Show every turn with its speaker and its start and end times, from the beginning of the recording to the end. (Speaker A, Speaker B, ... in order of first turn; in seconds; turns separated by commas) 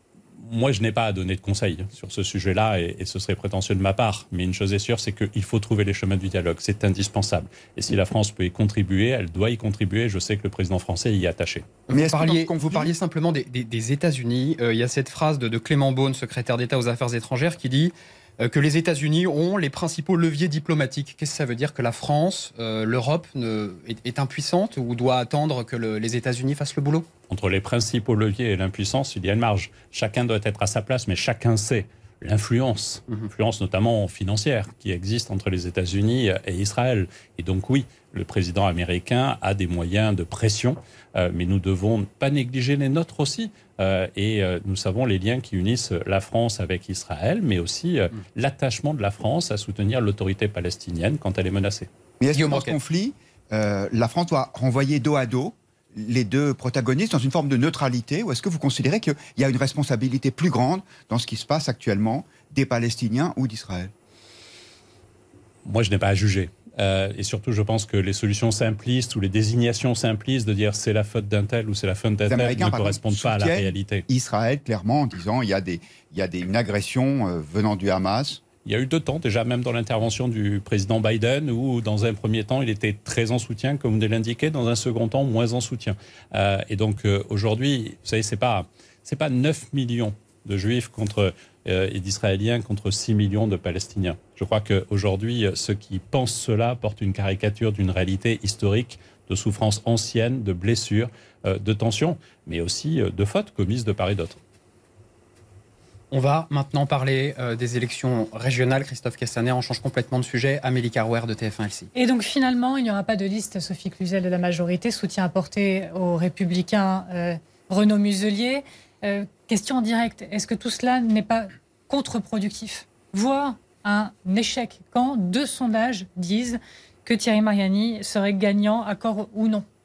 Speaker A: 0.4-11.7, Speaker B: 11.9-27.1, Speaker C: 11.9-12.9, Speaker A: 27.3-51.9, Speaker C: 52.2-63.9, Speaker B: 52.3-52.8, Speaker A: 65.6-74.0, Speaker C: 72.3-78.4, Speaker A: 78.6-104.4, Speaker B: 106.1-111.9, Speaker D: 111.9-129.6